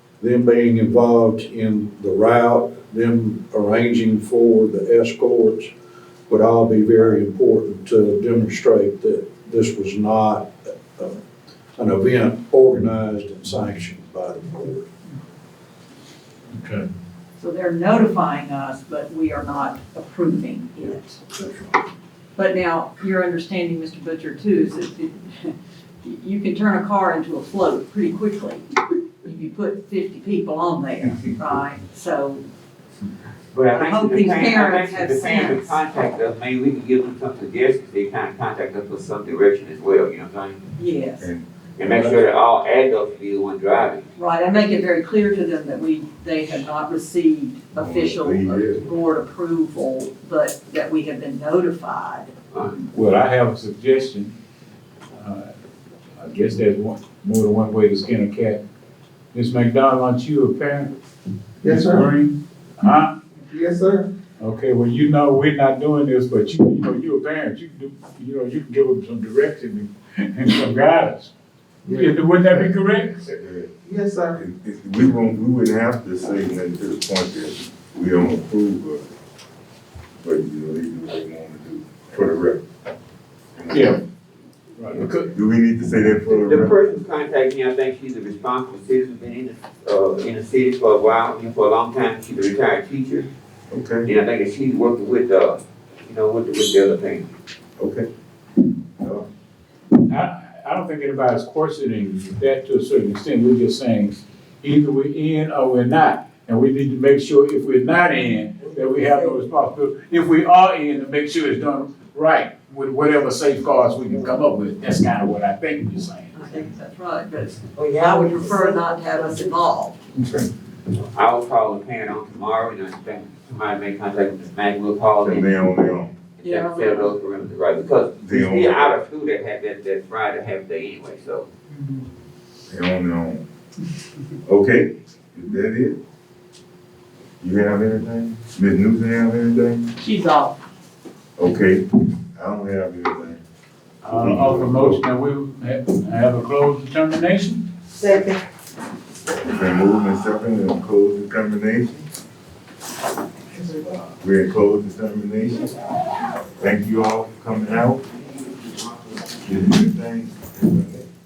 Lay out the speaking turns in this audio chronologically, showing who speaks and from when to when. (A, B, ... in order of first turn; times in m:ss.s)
0:00.2-0:05.7 A
0:06.3-0:11.2 A
0:11.8-0:14.9 A
0:17.4-0:21.4 B
0:22.4-0:28.6 B
0:29.2-0:32.4 B
0:33.5-0:40.6 C
0:33.7-0:35.8 B
0:40.8-0:41.3 B
0:41.2-0:42.3 D
0:41.8-0:44.0 C
0:44.2-0:52.3 B
0:47.7-0:48.8 D
0:52.5-0:52.8 C
0:52.8-0:54.3 E
0:55.2-0:55.5 E
0:56.2-0:58.6 E
0:59.3-1:00.9 E
1:01.6-1:02.1 F
1:01.6-1:03.1 E
1:03.4-1:04.1 F
1:04.4-1:11.3 E
1:11.9-1:12.7 F
1:11.9-1:13.3 E
1:13.4-1:13.7 D
1:13.8-1:14.4 F
1:14.3-1:19.0 D
1:20.2-1:22.6 D
1:23.6-1:24.0 D
1:23.7-1:24.0 E
1:24.8-1:25.3 E
1:25.3-1:26.8 D
1:26.3-1:33.3 C
1:33.7-1:34.1 D
1:34.0-1:37.3 C
1:37.8-1:38.1 D
1:39.0-1:39.2 D
1:40.1-1:56.6 E
1:48.7-1:49.3 F
1:56.3-2:00.0 B
1:57.7-1:59.5 F
2:01.0-2:05.5 C
2:05.2-2:06.1 D
2:06.4-2:11.5 C
2:06.4-2:07.1 B
2:08.2-2:08.9 D
2:12.7-2:13.4 D
2:14.4-2:16.0 D
2:17.4-2:19.9 D
2:20.0-2:20.5 B
2:21.4-2:23.4 D
2:24.0-2:27.6 E
2:24.1-2:25.0 D
2:29.3-2:32.1 D
2:34.2-2:35.7 D
2:36.6-2:38.0 D
2:38.4-2:39.2 C
2:39.4-2:41.0 D